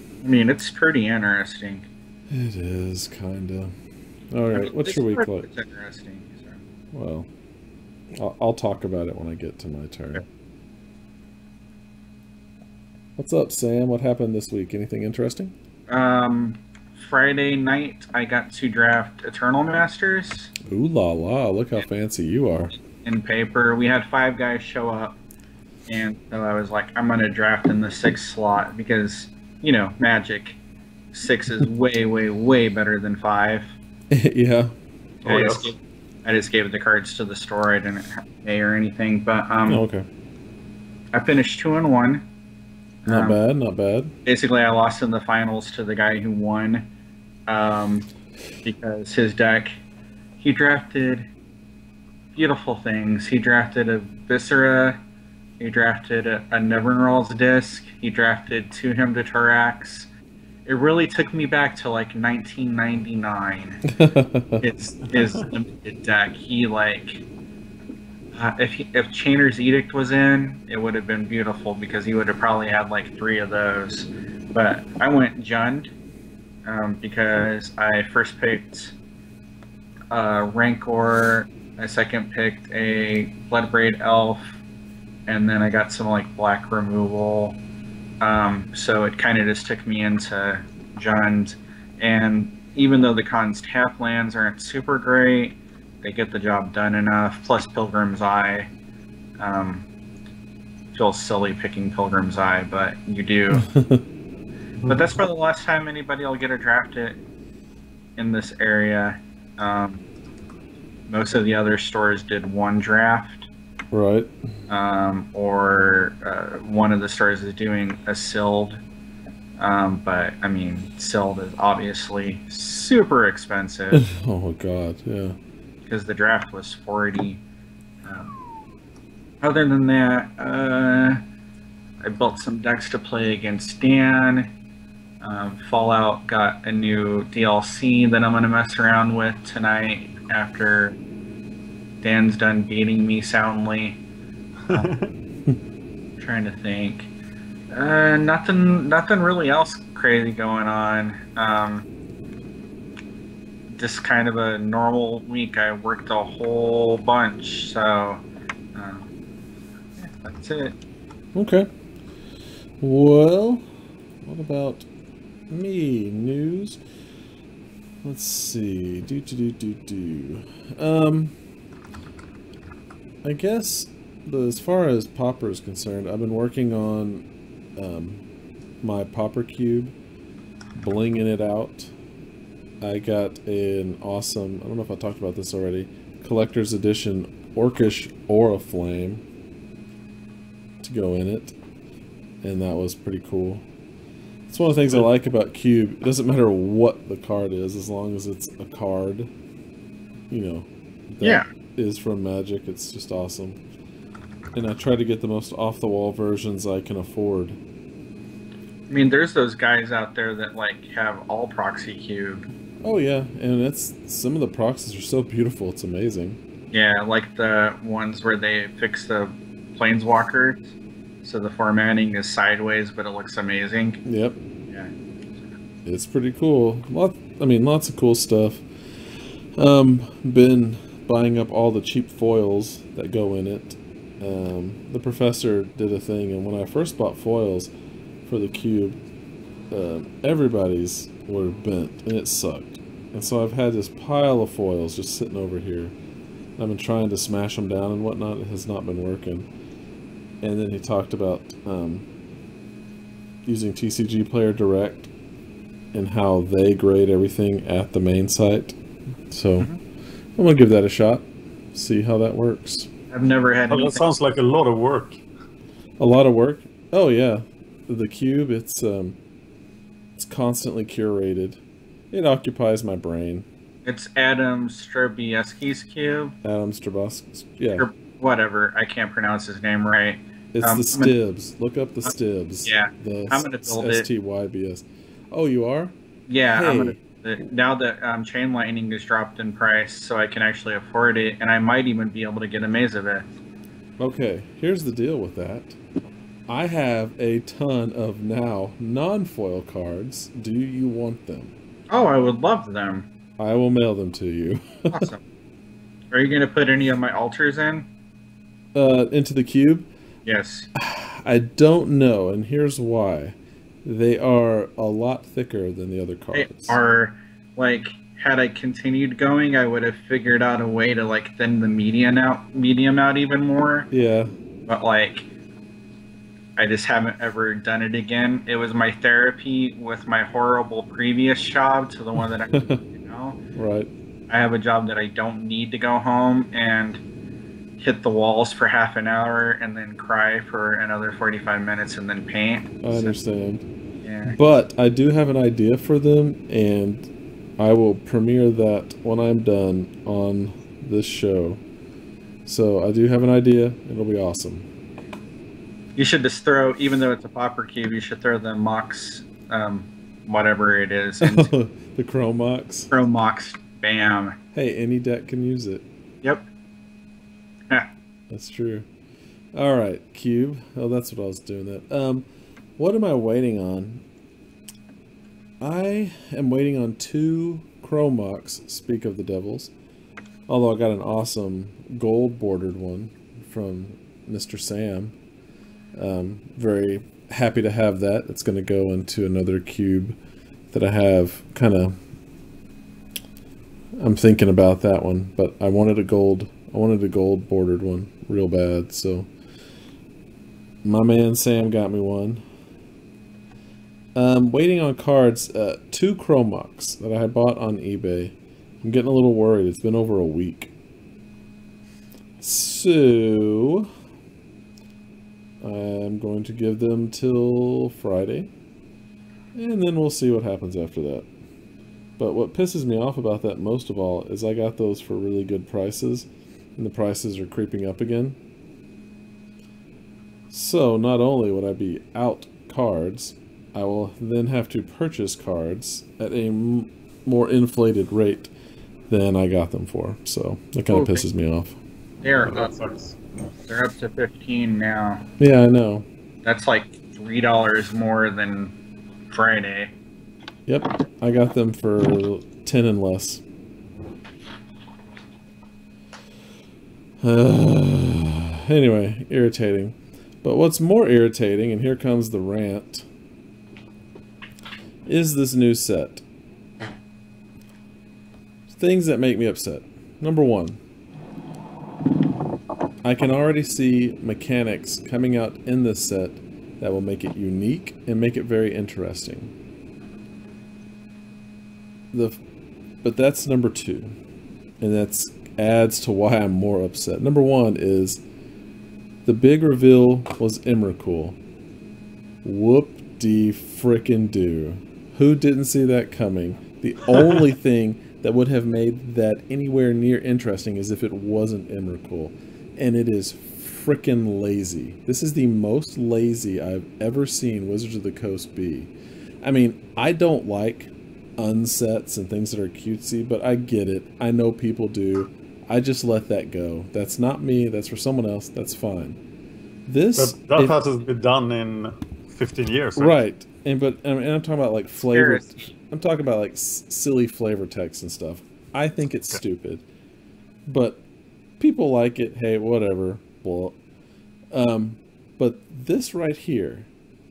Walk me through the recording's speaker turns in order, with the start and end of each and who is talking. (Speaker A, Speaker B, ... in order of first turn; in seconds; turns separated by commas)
Speaker A: 0.2-1.9, Speaker B: 2.3-3.7, Speaker B: 4.3-5.5, Speaker A: 4.5-6.6, Speaker B: 6.9-7.3, Speaker B: 8.1-10.2, Speaker B: 13.2-15.5, Speaker A: 15.9-20.5, Speaker B: 20.6-22.7, Speaker A: 22.9-25.2, Speaker A: 25.9-30.6, Speaker A: 31.1-33.7, Speaker B: 34.1-34.7, Speaker C: 35.2-35.7, Speaker A: 35.2-39.8, Speaker B: 39.7-40.0, Speaker A: 41.1-42.2, Speaker A: 43.0-43.4, Speaker B: 43.0-44.1, Speaker A: 44.2-46.9, Speaker A: 47.5-48.1, Speaker A: 48.6-49.8, Speaker A: 50.4-51.2, Speaker A: 52.3-55.0, Speaker A: 55.6-60.1, Speaker A: 60.6-63.8, Speaker B: 63.9-64.6, Speaker A: 64.6-67.2, Speaker C: 65.2-65.4, Speaker A: 68.3-75.9, Speaker A: 76.6-78.9, Speaker A: 80.1-84.6, Speaker A: 85.3-87.6, Speaker A: 88.2-98.7, Speaker A: 99.4-99.8, Speaker A: 100.9-103.7, Speaker B: 103.5-104.0, Speaker C: 104.8-105.2, Speaker A: 104.9-107.2, Speaker A: 108.2-110.0, Speaker A: 111.1-113.5, Speaker B: 113.9-114.3, Speaker A: 114.7-118.8, Speaker A: 119.6-124.1, Speaker B: 123.9-125.3, Speaker A: 125.9-127.4, Speaker A: 128.0-128.3, Speaker A: 129.4-131.2, Speaker A: 132.0-134.5, Speaker A: 135.2-141.0, Speaker A: 142.0-144.0, Speaker C: 144.7-145.1, Speaker A: 146.2-147.1, Speaker A: 147.7-151.8, Speaker A: 153.7-158.2, Speaker A: 158.7-159.1, Speaker A: 160.0-160.7, Speaker B: 161.3-161.7, Speaker B: 162.8-163.7, Speaker B: 164.2-164.9, Speaker B: 165.5-166.8, Speaker B: 168.0-171.3, Speaker B: 173.2-177.2, Speaker B: 177.8-178.2, Speaker B: 178.8-179.9, Speaker B: 180.7-181.9, Speaker B: 182.8-189.2, Speaker B: 190.8-191.5, Speaker B: 192.4-193.6, Speaker B: 194.5-199.3, Speaker B: 200.3-203.6, Speaker B: 204.5-207.6, Speaker A: 208.9-212.5, Speaker B: 212.8-216.4, Speaker A: 216.7-224.0, Speaker B: 224.0-224.4, Speaker B: 225.8-228.6, Speaker B: 229.6-237.7, Speaker B: 238.2-239.0, Speaker B: 239.7-245.9, Speaker B: 246.6-249.5, Speaker B: 250.4-252.1, Speaker B: 253.4-255.1, Speaker B: 255.9-258.8, Speaker B: 259.3-259.7, Speaker B: 260.4-262.9, Speaker A: 263.1-264.0, Speaker C: 263.7-265.2, Speaker B: 266.0-269.2, Speaker B: 270.2-271.6, Speaker B: 272.1-273.4, Speaker A: 273.8-276.3, Speaker B: 276.4-277.9, Speaker A: 277.7-281.1, Speaker B: 280.5-285.9, Speaker A: 282.6-284.1, Speaker A: 286.3-293.2, Speaker B: 286.5-287.0, Speaker B: 294.0-295.8, Speaker B: 296.5-301.5, Speaker A: 301.9-303.1, Speaker B: 303.4-305.1, Speaker A: 304.9-305.2, Speaker A: 306.1-307.9, Speaker B: 308.7-309.9, Speaker A: 310.2-310.7, Speaker B: 310.7-316.8, Speaker A: 316.3-323.9, Speaker B: 323.9-324.3, Speaker A: 324.7-325.2, Speaker A: 326.6-333.4, Speaker B: 332.5-332.8, Speaker B: 333.5-333.9, Speaker A: 334.3-337.0, Speaker A: 337.8-343.1, Speaker B: 342.8-343.6, Speaker A: 344.0-344.4, Speaker B: 344.3-351.6, Speaker B: 352.4-354.7, Speaker A: 355.9-361.5, Speaker B: 361.2-362.9, Speaker A: 362.9-364.4, Speaker B: 364.5-365.8, Speaker B: 368.3-368.9, Speaker B: 369.5-372.2, Speaker B: 372.8-374.0, Speaker B: 375.6-379.7, Speaker B: 380.5-385.1, Speaker B: 385.9-390.2, Speaker B: 390.7-392.0, Speaker B: 394.0-399.3, Speaker B: 400.8-402.4, Speaker B: 404.1-410.7, Speaker B: 412.4-413.9, Speaker B: 415.6-418.5, Speaker B: 419.5-421.3, Speaker B: 422.2-428.4, Speaker B: 430.5-438.5, Speaker B: 439.1-441.8, Speaker A: 440.9-441.2, Speaker A: 442.2-442.7, Speaker C: 442.4-443.1, Speaker A: 443.7-445.2, Speaker B: 445.4-446.1, Speaker A: 446.4-448.7, Speaker A: 449.3-449.9, Speaker B: 450.7-453.4, Speaker B: 457.2-463.0, Speaker B: 465.1-466.2, Speaker B: 468.7-470.8, Speaker B: 473.0-479.5, Speaker B: 482.1-482.4, Speaker B: 483.0-484.1, Speaker B: 484.8-488.2, Speaker B: 489.2-491.4, Speaker B: 492.4-519.2, Speaker B: 519.9-520.8, Speaker C: 520.1-523.2, Speaker B: 523.0-529.8, Speaker A: 525.0-525.5, Speaker B: 530.6-531.0, Speaker B: 531.6-533.8, Speaker B: 534.5-536.9